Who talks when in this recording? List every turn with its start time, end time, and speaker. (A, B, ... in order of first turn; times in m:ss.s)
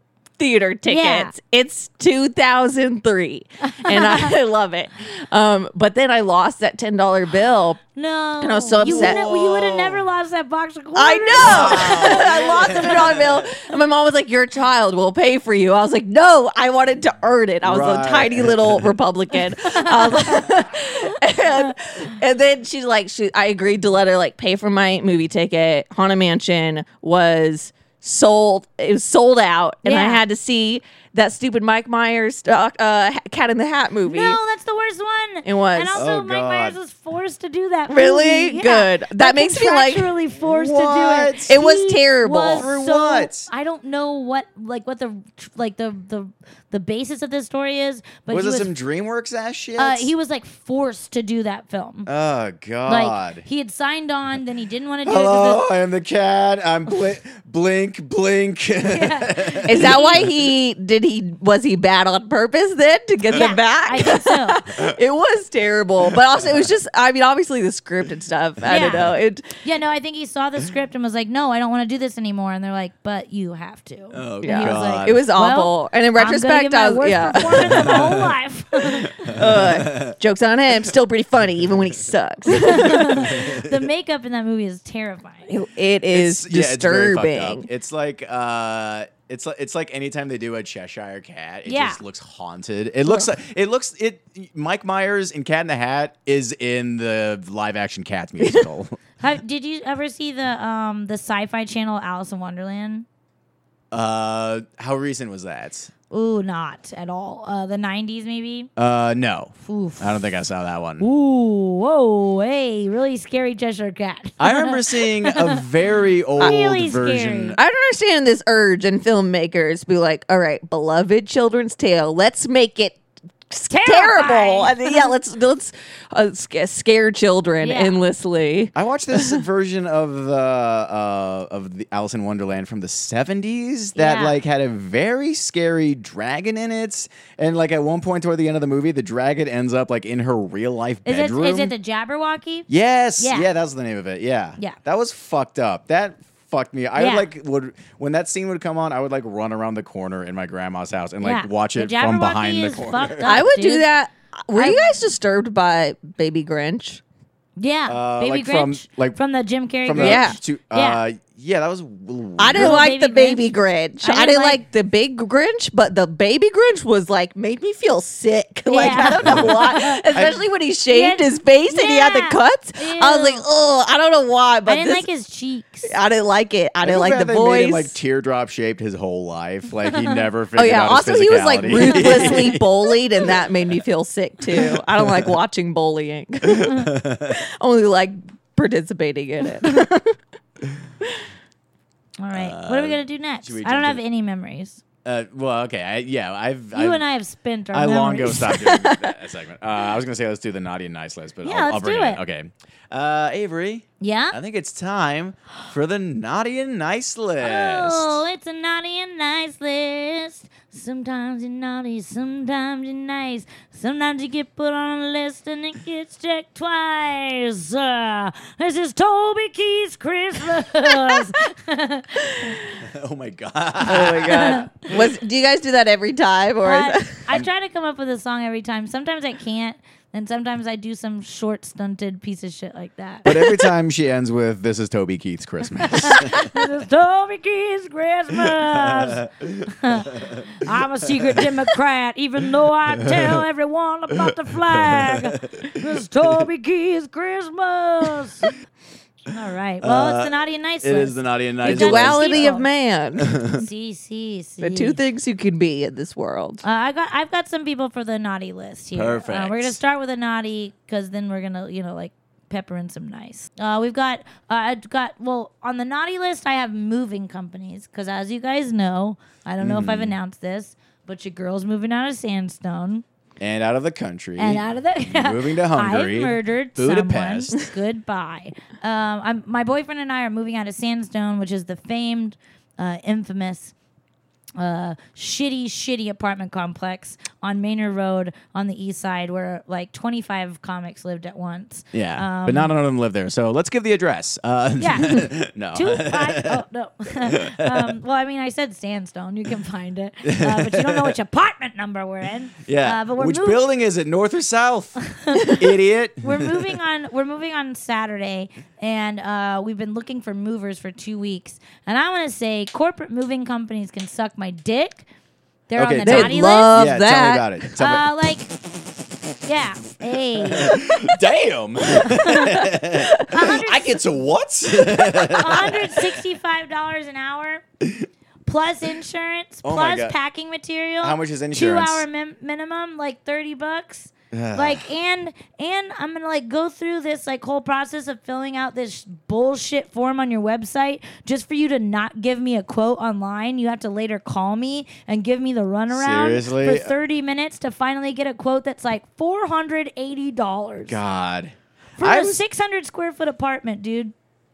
0:00.4-0:07.8 A
0:00.9-0:01.3 B
0:03.7-0:04.3 B
0:08.0-0:12.3 B
0:08.4-0:09.2 A
0:08.8-0:10.0 C
0:11.0-0:34.4 A
0:11.4-0:13.5 C
0:17.6-0:18.8 C
0:19.6-0:20.6 B
0:29.8-0:30.2 B
0:34.1-0:48.7 B
0:35.4-0:36.0 A
0:36.0-0:36.8 C
0:37.9-0:40.2 A
0:40.4-0:41.6 C
0:41.5-0:42.7 A
0:42.5-0:43.5 C
0:48.3-0:50.1 C
0:49.8-0:52.1 B
0:52.1-0:53.4 C
0:52.9-0:55.6 B
0:55.0-1:00.0 C
0:58.8-1:00.2 B
0:59.7-1:09.5 A
1:03.3-1:05.0 C
1:03.3-1:04.6 B
1:06.1-1:06.7 C
1:08.6-1:09.2 C
1:08.7-1:09.0 B
1:09.6-1:19.4 B
1:14.1-1:15.2 C
1:14.4-1:18.1 A
1:17.5-1:18.4 C
1:18.9-1:20.2 C
1:19.3-1:23.3 A
1:22.5-1:25.5 B
1:22.9-1:23.8 C
1:25.5-1:27.7 A
1:26.1-1:39.0 C
1:31.7-1:32.0 B
1:38.4-1:38.7 A
1:39.2-1:43.0 B
1:43.9-1:45.9 C
1:46.1-1:48.7 B
1:48.8-1:51.0 C
1:49.6-1:50.2 B
1:51.0-1:55.6 B
1:54.4-1:57.6 C
1:56.4-1:57.6 B
1:57.6-2:09.4 A
2:03.7-2:05.1 B
2:07.6-2:08.0 B
2:08.8-2:21.7 C
2:14.0-2:14.4 B
2:21.0-2:22.7 B
2:22.7-2:33.4 C
2:23.2-2:23.5 B
2:27.0-2:27.3 B
2:31.2-2:33.9 B
2:33.3-2:37.0 A
2:34.6-2:34.9 B
2:37.6-2:41.0 B
2:37.9-2:39.2 C
2:39.8-2:42.8 C
2:40.0-2:40.4 A
2:42.4-2:55.1 A
2:42.5-2:44.6 B
2:48.7-2:50.0 B
2:48.8-2:50.4 C
2:50.9-2:53.4 B
2:54.7-2:55.9 B
2:55.9-2:58.0 A
2:56.8-3:02.6 C
2:59.9-3:00.2 B
3:00.6-3:06.8 A
3:01.7-3:02.6 B
3:04.6-3:05.3 C
3:06.5-3:07.4 C
3:06.6-3:06.9 B
3:07.3-3:10.2 A
3:12.2-3:14.8 B
3:12.3-3:14.0 C
3:15.0-3:17.0 C
3:16.8-3:18.5 B
3:17.7-3:28.2 C
3:18.4-3:19.1 A
3:21.4-3:22.2 B
3:24.0-3:24.4 B
3:27.4-3:42.6 B
3:42.8-3:45.1 C
3:43.8-3:47.2 A
3:44.3-3:44.7 B
3:46.6-3:53.3 B
3:53.2-3:56.6 C
3:55.9-4:08.5 B
3:58.4-4:00.4 C
4:01.1-4:01.5 C
4:02.9-4:03.4 C
4:04.2-4:06.3 C
4:09.3-4:12.7 B
4:09.8-4:12.6 C
4:11.6-4:13.5 A
4:13.2-4:13.6 C
4:13.4-4:15.0 B
4:14.6-4:16.6 A
4:16.6-4:33.0 B
4:18.9-4:19.8 C
4:29.6-4:30.2 C
4:33.4-4:37.6 C
4:34.4-4:43.7 B
4:44.6-4:52.7 B
4:51.9-4:56.6 C
4:54.8-5:03.6 B
4:57.2-4:58.0 C
5:00.2-5:01.2 C
5:02.6-5:06.7 C
5:05.1-5:05.6 B
5:06.2-5:15.0 B
5:15.7-5:16.8 B
5:15.8-5:18.1 C
5:16.0-5:17.7 A
5:17.8-5:18.5 B
5:19.4-5:21.1 B
5:20.6-5:26.0 C
5:22.0-5:22.6 B
5:23.3-5:24.0 B
5:25.1-5:27.6 B
5:27.8-5:28.1 C
5:28.5-5:51.0 B
5:29.6-5:30.2 C
5:31.0-5:32.0 C
5:34.3-5:34.9 C
5:45.9-5:46.9 C
5:50.9-5:52.4 C
5:52.0-5:54.1 B